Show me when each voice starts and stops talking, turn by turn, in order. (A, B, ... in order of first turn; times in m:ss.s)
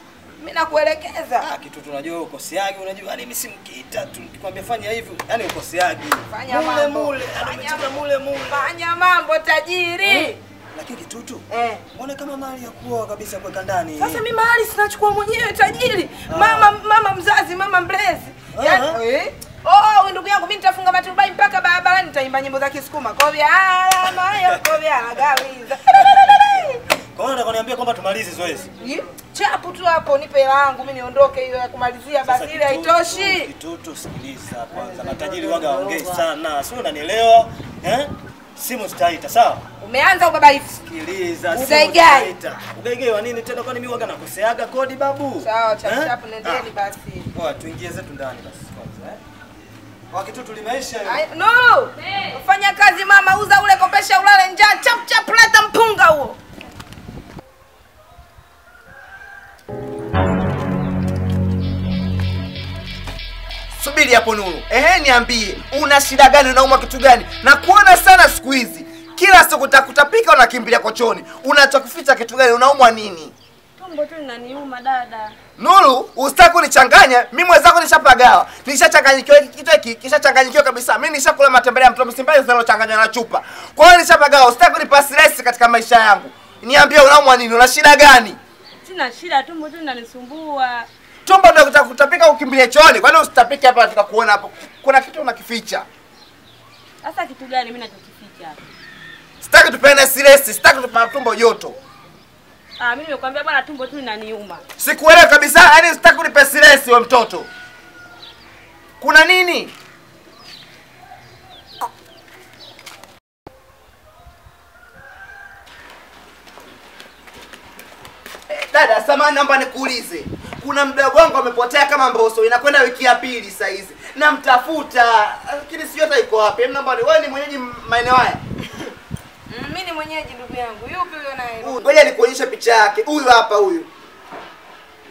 0:00.4-0:01.5 A
0:01.4-0:08.7 B
0:06.3-0:10.4 A
0:10.0-0:14.2 B
0:11.5-0:11.8 A
0:14.0-0:26.8 A
0:16.3-0:16.7 B
0:18.5-0:19.0 B
0:27.1-0:28.7 B
0:28.8-0:33.5 A
0:32.2-0:39.6 B
0:35.2-0:36.1 C
0:39.8-0:40.8 A
0:40.9-0:46.7 B
0:41.5-0:42.4 A
0:45.4-0:47.3 A
0:47.3-0:49.2 B
0:50.1-0:51.2 B
0:51.0-0:56.4 A
0:51.9-0:52.4 D
1:03.7-1:13.3 C
1:13.8-1:15.4 D
1:15.6-1:28.4 C
1:28.8-1:30.9 D
1:31.2-1:35.8 C
1:37.0-1:38.6 D
1:39.4-1:41.8 C
1:42.8-1:44.6 D
1:44.8-1:47.5 C
1:49.0-1:49.7 C
1:58.5-2:08.4 C
2:09.5-2:11.9 A
2:11.6-2:13.9 C